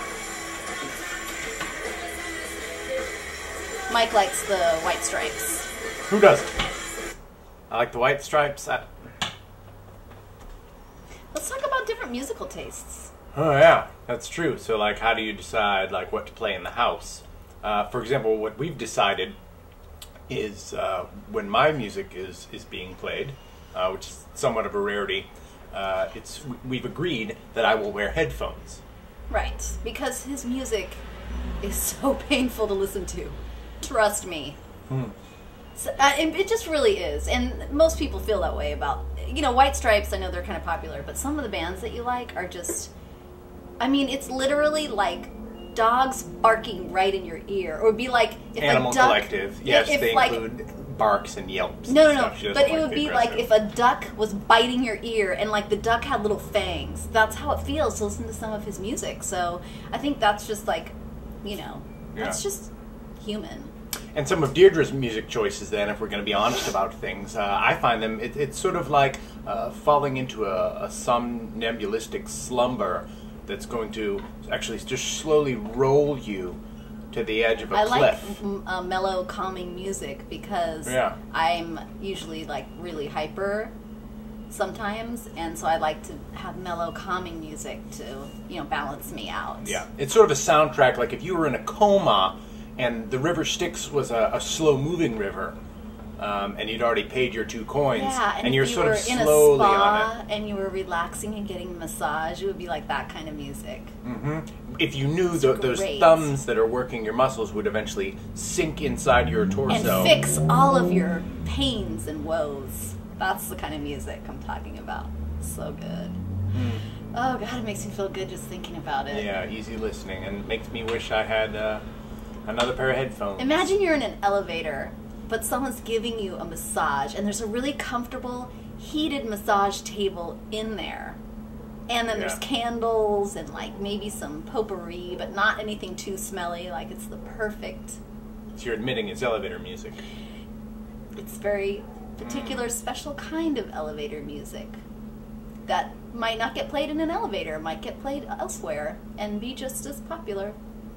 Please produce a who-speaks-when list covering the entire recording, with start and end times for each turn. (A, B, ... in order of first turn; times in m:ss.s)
0:03.9-0:05.7 A
0:06.1-0:06.5 B
0:07.7-0:08.9 B
0:11.3-0:13.1 A
0:13.3-0:19.4 B
0:20.3-0:28.8 B
0:29.3-0:31.0 A
0:31.6-0:34.6 A
0:34.9-0:35.1 B
0:35.8-0:42.9 A
0:43.8-0:50.4 A
0:48.6-0:53.5 B
0:51.9-1:03.7 A
1:04.1-1:16.6 B
1:17.1-1:18.4 B
1:17.7-1:23.7 A
1:20.8-1:21.2 B
1:24.5-1:29.8 A
1:29.6-1:35.6 B
1:36.2-1:40.1 B
1:37.9-1:43.9 A
1:44.0-1:50.2 B
1:45.3-1:46.3 A
1:49.7-1:56.2 A
1:56.5-1:56.8 B
1:57.1-1:59.3 A
1:59.1-2:01.8 B
2:02.4-2:03.7 B
2:03.4-2:11.2 A
2:11.9-2:18.0 A
2:12.1-2:12.4 B
2:18.5-2:20.0 B
2:21.2-2:24.8 A
2:22.2-2:22.7 B
2:25.6-2:30.6 A